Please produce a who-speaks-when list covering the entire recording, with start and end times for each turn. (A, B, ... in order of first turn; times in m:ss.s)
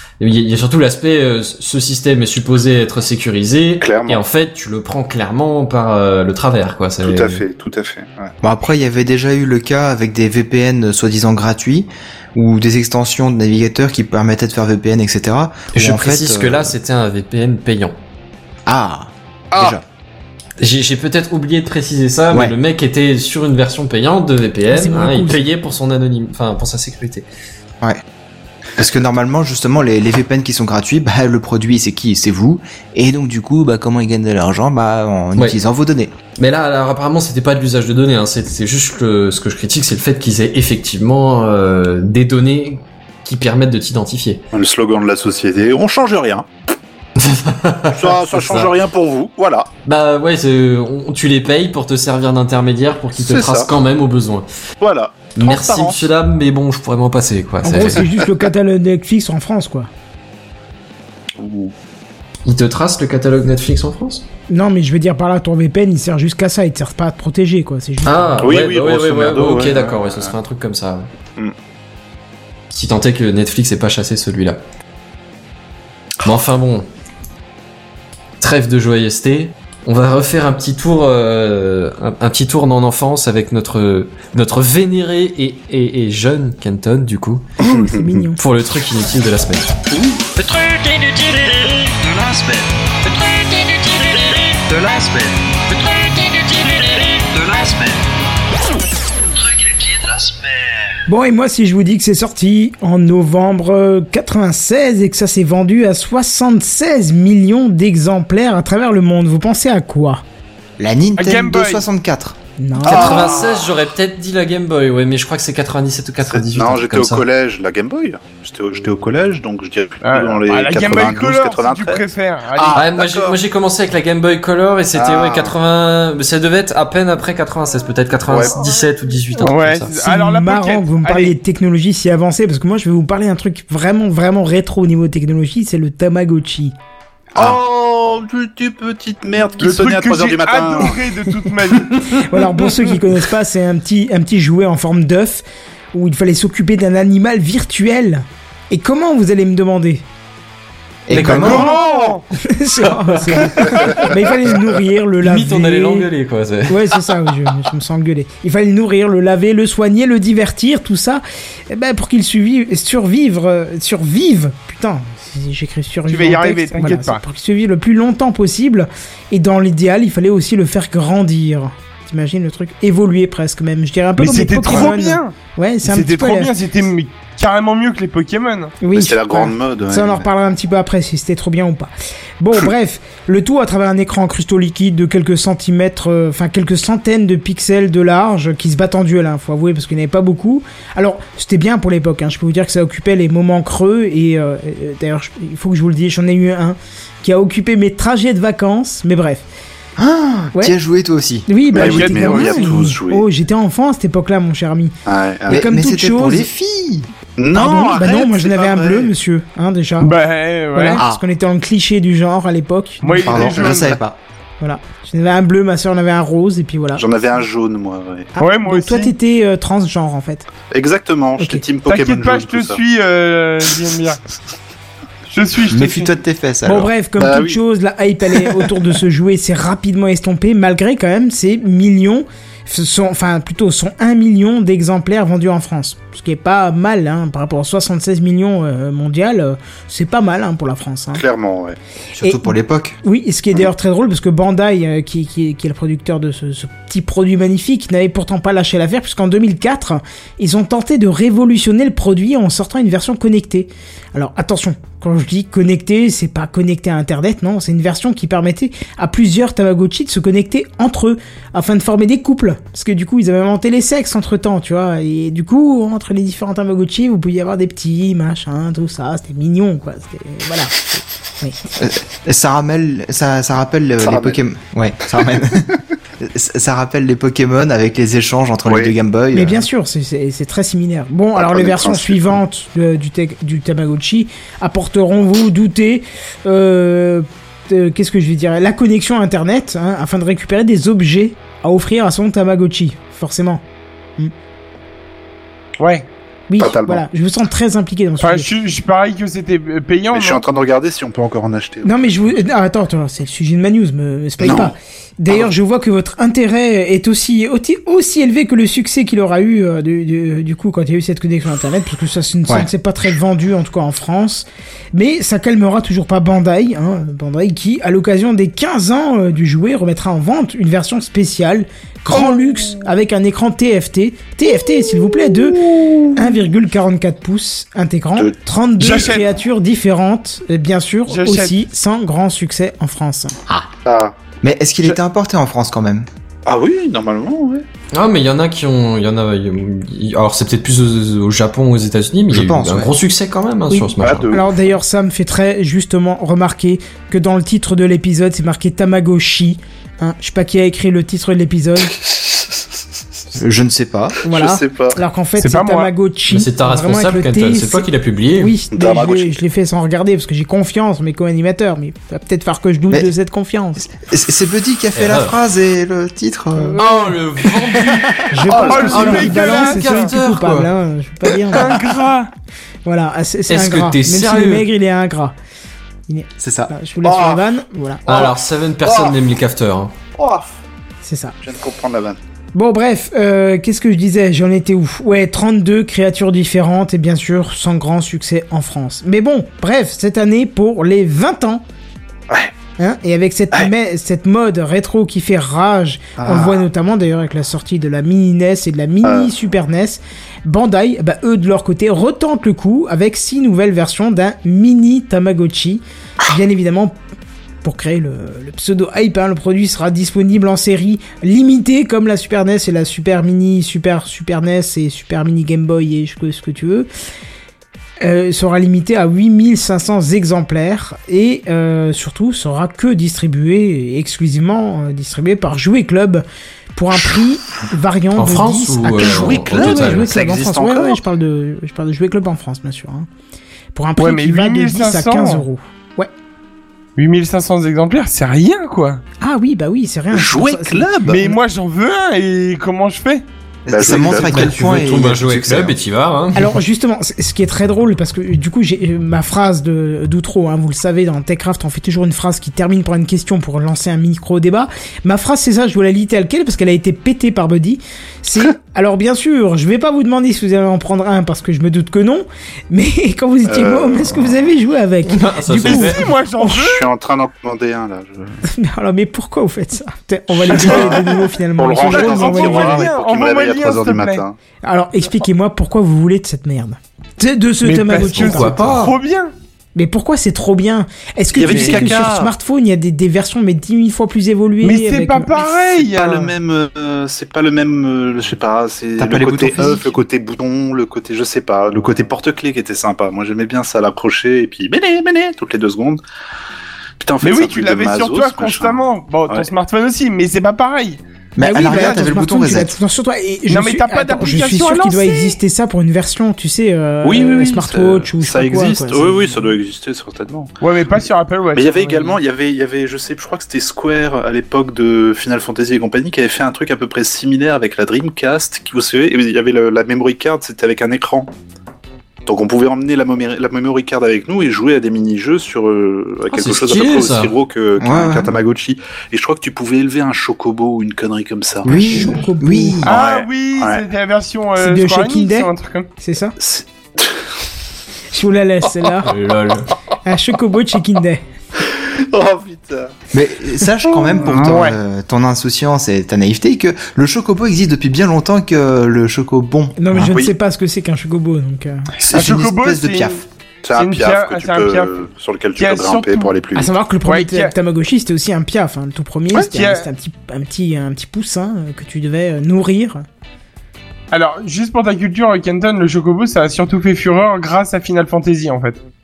0:00.2-0:07.4 A
0:03.8-0:04.2 B
0:07.0-0:08.3 B
0:08.4-0:16.7 C
0:15.7-0:17.9 A
0:18.6-0:19.8 C
0:20.6-0:27.3 A
0:24.7-0:25.4 D
0:28.8-0:36.1 C
0:36.4-0:44.4 A
0:44.5-0:46.4 B
0:47.2-0:48.7 A
0:47.9-0:49.7 B
0:49.8-0:54.5 A
0:53.2-0:53.7 B
0:54.8-0:56.0 B
0:55.3-0:58.1 A
0:57.6-0:59.9 D
1:01.4-1:01.7 B
1:02.4-1:04.2 A
1:04.5-1:08.4 D
1:08.0-1:11.1 A
1:08.4-1:10.3 B
1:12.7-1:14.6 A
1:16.2-1:16.9 A
1:18.4-1:27.5 A
1:27.6-1:28.4 D
1:27.6-1:28.1 B
1:28.4-1:29.7 A
1:29.9-1:30.2 B
1:30.3-1:38.0 E
1:39.3-1:41.0 E
1:41.1-1:50.2 D
1:50.8-1:52.4 C
1:51.2-1:51.8 F
1:52.6-1:53.2 D
1:52.8-1:53.8 B
1:52.8-1:57.2 A
1:56.2-2:03.4 B
2:00.0-2:02.8 F
2:02.7-2:09.9 A
2:04.9-2:05.5 B
2:08.3-2:08.6 B
2:09.4-2:11.3 F
2:10.0-2:16.7 D
2:17.3-2:21.0 B
2:19.6-2:22.6 F
2:22.2-2:30.0 D
2:31.0-2:31.7 C
2:31.1-2:36.1 D
2:31.1-2:32.2 F
2:32.9-2:34.1 A
2:35.2-2:37.0 A
2:36.7-2:56.5 D
2:46.1-2:47.2 F
2:54.2-2:58.8 F
2:58.8-3:19.4 D
2:58.9-3:00.3 B
3:20.0-3:21.5 C
3:21.5-3:24.9 D
3:21.7-3:23.2 B
3:21.8-3:22.7 F
3:25.1-3:25.6 B
3:25.5-3:27.1 C
3:25.5-3:26.5 D
3:27.4-3:29.1 B
3:27.5-3:30.1 D
3:30.0-3:31.0 F
3:30.7-3:33.6 D
3:33.0-3:34.0 F
3:33.2-3:34.2 C
3:34.6-3:37.0 D
3:37.0-3:38.3 B
3:38.4-3:40.5 D
3:38.4-3:39.1 F
3:40.7-3:42.8 B
3:41.4-3:41.6 D
3:41.8-3:44.2 F
3:45.3-3:46.1 F
3:45.7-3:46.9 C
3:46.6-4:01.2 D
3:47.2-3:47.6 B
4:01.1-4:01.8 B
4:02.1-4:03.0 C
4:02.2-4:31.6 D
4:31.8-4:39.6 C
4:34.0-4:34.4 B
4:38.6-4:38.9 B
4:39.3-4:53.6 D
4:41.4-4:42.4 B
4:55.8-4:56.1 F
4:56.5-4:58.5 D
4:56.6-4:57.0 B
4:58.2-5:00.4 F
5:00.1-5:02.3 B
5:01.8-5:33.3 D
5:04.4-5:04.7 B
5:22.1-5:22.7 F
5:28.8-5:29.3 F
5:31.1-5:31.6 F
5:33.8-5:34.1 B
5:34.4-5:36.1 C
5:36.4-5:37.6 B
5:37.9-5:44.4 A
5:42.3-5:42.9 C
5:43.7-5:52.0 D
5:44.0-5:44.5 B
5:53.3-5:54.2 C
5:54.2-6:03.8 D
5:54.3-5:55.0 B
5:55.4-5:55.9 F
5:56.3-5:58.6 A
5:58.7-5:59.4 B
6:03.8-6:07.9 C
6:05.0-6:05.4 A
6:06.8-6:10.2 A
6:08.3-6:11.8 D
6:08.5-6:08.9 B
6:08.6-6:10.1 F
6:09.4-6:10.7 C
6:11.5-6:12.3 F
6:12.8-6:15.3 D
6:13.5-6:14.7 A
6:16.1-6:18.0 D
6:16.4-6:16.7 C
6:17.0-6:17.4 B
6:18.0-6:19.1 B
6:18.1-6:19.9 A
6:20.2-6:20.5 B
6:21.0-6:21.3 D
6:21.4-6:22.2 B
6:22.5-6:31.6 D
6:32.8-6:46.9 D
6:36.2-6:36.6 B
6:39.0-6:39.3 B
6:47.6-6:56.9 D
6:58.0-7:06.2 D
7:06.7-7:13.1 D
7:08.2-7:10.1 A
7:09.0-7:11.0 B
7:13.7-7:16.1 D
7:14.0-7:15.4 F
7:17.0-7:19.0 F
7:19.2-7:21.4 D
7:20.1-7:21.2 B
7:21.1-7:23.2 F
7:23.6-7:25.7 C
7:23.7-7:24.6 B
7:24.2-7:26.5 A
7:26.3-7:46.6 D
7:43.4-7:44.3 B
7:45.1-7:46.0 A
7:45.6-7:46.9 F
7:46.5-7:48.4 B
7:48.4-7:52.9 D
7:50.4-7:54.4 B
7:50.5-7:51.0 F
7:51.9-7:54.2 F
7:54.6-7:58.6 D
7:57.6-7:59.3 F
7:58.1-7:59.0 A
7:59.7-8:05.3 D
8:01.3-8:02.3 B
8:01.5-8:02.0 F
8:04.6-8:06.3 F
8:05.4-8:16.0 B
8:09.0-8:09.9 C
8:17.0-8:19.5 B
8:17.2-8:21.0 F
8:21.4-8:22.8 C
8:21.4-8:29.5 D
8:23.5-8:25.4 F
8:27.0-8:30.5 B
8:30.6-8:32.2 F
8:31.5-8:41.3 B
8:42.2-8:51.9 B
8:46.3-8:47.3 A
8:47.8-8:48.3 C
8:51.6-8:52.9 C
8:51.7-8:52.8 D
8:52.8-8:55.9 F
8:52.8-8:53.8 B
8:54.6-8:56.3 D
8:56.4-8:57.1 B
8:58.1-8:59.1 D
8:59.0-8:59.7 A
9:00.0-9:01.2 D
9:01.7-9:02.9 B
9:03.1-9:10.2 C
9:03.9-9:04.8 F
9:09.8-9:11.9 D
9:10.0-9:10.3 B
9:12.0-9:13.2 C
9:12.1-9:13.2 F
9:13.6-9:16.7 B
9:13.8-9:14.9 F
9:15.6-9:16.3 F
9:16.5-9:23.0 D
9:17.0-9:17.5 F
9:19.3-9:19.9 F
9:24.1-9:28.8 F